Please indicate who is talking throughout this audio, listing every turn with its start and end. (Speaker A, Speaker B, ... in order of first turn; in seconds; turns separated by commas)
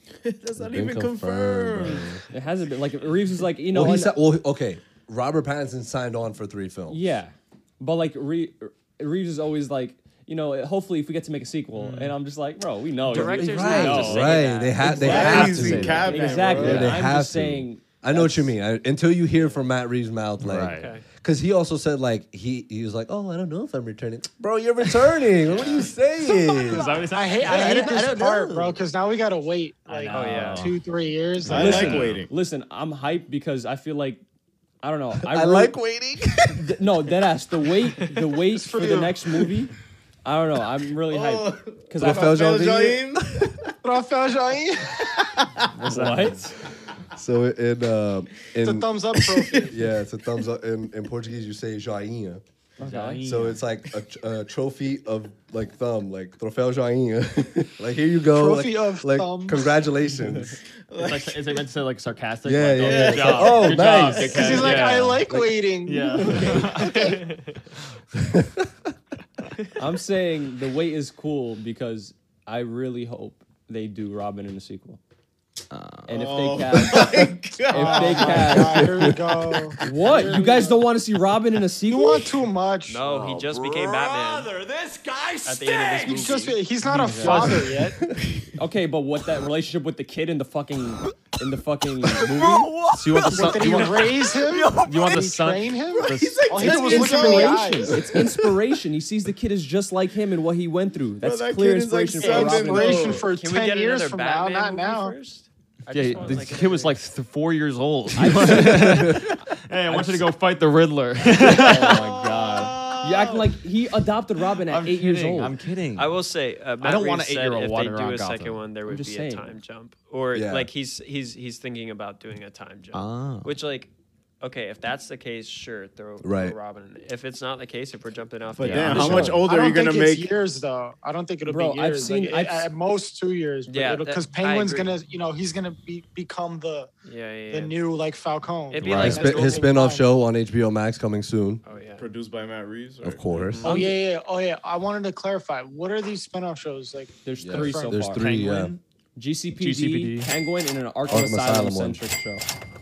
Speaker A: 0.2-2.2, Speaker B: 0.6-2.2, Speaker C: 2.3-4.2, Speaker B: 3.7-7.1, Speaker C: 6.9-18.5, Speaker D: 11.8-12.2, Speaker E: 13.0-15.2, Speaker B: 13.1-26.9, Speaker D: 13.7-16.9, Speaker A: 14.9-16.9, Speaker D: 20.4-20.9, Speaker E: 20.7-21.0, Speaker E: 25.4-25.9, Speaker D: 26.5-28.3, Speaker F: 27.1-32.0, Speaker C: 27.4-28.7, Speaker E: 30.0-30.8, Speaker D: 30.1-30.8, Speaker C: 30.2-30.5, Speaker D: 31.4-32.2, Speaker A: 31.4-32.3, Speaker C: 31.5-34.2, Speaker C: 34.8-35.8, Speaker B: 35.2-36.7, Speaker C: 36.5-39.7, Speaker F: 38.5-39.2, Speaker C: 40.2-42.4, Speaker A: 41.1-43.7, Speaker B: 42.0-43.1, Speaker F: 43.8-45.1, Speaker A: 45.4-45.7, Speaker D: 45.7-46.5, Speaker C: 45.8-46.5, Speaker B: 47.1-48.9, Speaker F: 48.6-49.7, Speaker A: 49.1-49.7, Speaker B: 49.7-52.4, Speaker C: 52.8-53.2, Speaker D: 52.8-53.6, Speaker B: 53.2-60.6, Speaker F: 58.3-59.6, Speaker A: 60.9-61.6, Speaker D: 61.0-65.2, Speaker B: 62.4-64.7, Speaker A: 62.8-64.3, Speaker F: 64.2-66.7, Speaker D: 65.8-67.2, Speaker E: 66.7-67.7, Speaker B: 68.2-68.7, Speaker C: 69.8-75.0, Speaker D: 75.7-76.3, Speaker C: 76.1-79.1, Speaker A: 76.1-78.7, Speaker F: 77.7-80.8, Speaker B: 78.9-79.3, Speaker C: 79.8-82.3, Speaker F: 81.8-83.1, Speaker E: 82.9-84.5, Speaker G: 83.0-86.5, Speaker E: 85.4-86.6, Speaker F: 86.0-88.0, Speaker D: 86.8-87.8, Speaker C: 86.9-87.5, Speaker C: 88.6-92.7, Speaker G: 92.2-95.3, Speaker D: 92.9-96.6, Speaker F: 93.3-98.0, Speaker G: 95.9-97.6, Speaker C: 96.6-103.2, Speaker G: 98.2-98.4, Speaker A: 101.2-103.3, Speaker F: 102.2-105.1, Speaker E: 103.2-107.0, Speaker D: 105.9-112.1, Speaker C: 108.2-109.2, Speaker B: 108.5-109.3, Speaker C: 109.9-110.3, Speaker C: 111.4-115.5, Speaker G: 111.9-113.5, Speaker D: 114.7-116.2, Speaker E: 116.0-123.9, Speaker D: 116.8-118.6, Speaker C: 118.8-119.5, Speaker B: 120.3-120.7, Speaker D: 122.9-123.5, Speaker E: 124.4-129.4, Speaker B: 126.2-126.5, Speaker A: 128.6-130.3, Speaker D: 128.6-129.3, Speaker F: 129.0-136.9, Speaker C: 131.4-132.7, Speaker E: 133.7-134.9, Speaker E: 137.0-137.8, Speaker F: 137.5-140.0, Speaker E: 138.7-139.7, Speaker D: 138.8-139.2, Speaker B: 139.0-141.6, Speaker E: 141.6-142.1, Speaker A: 142.0-143.5, Speaker B: 143.0-143.6, Speaker E: 143.4-143.8, Speaker F: 143.6-148.1, Speaker C: 143.6-143.9, Speaker C: 147.2-148.3, Speaker B: 147.4-148.7, Speaker D: 148.1-148.8, Speaker C: 149.2-152.4, Speaker D: 149.6-150.3, Speaker B: 151.1-152.0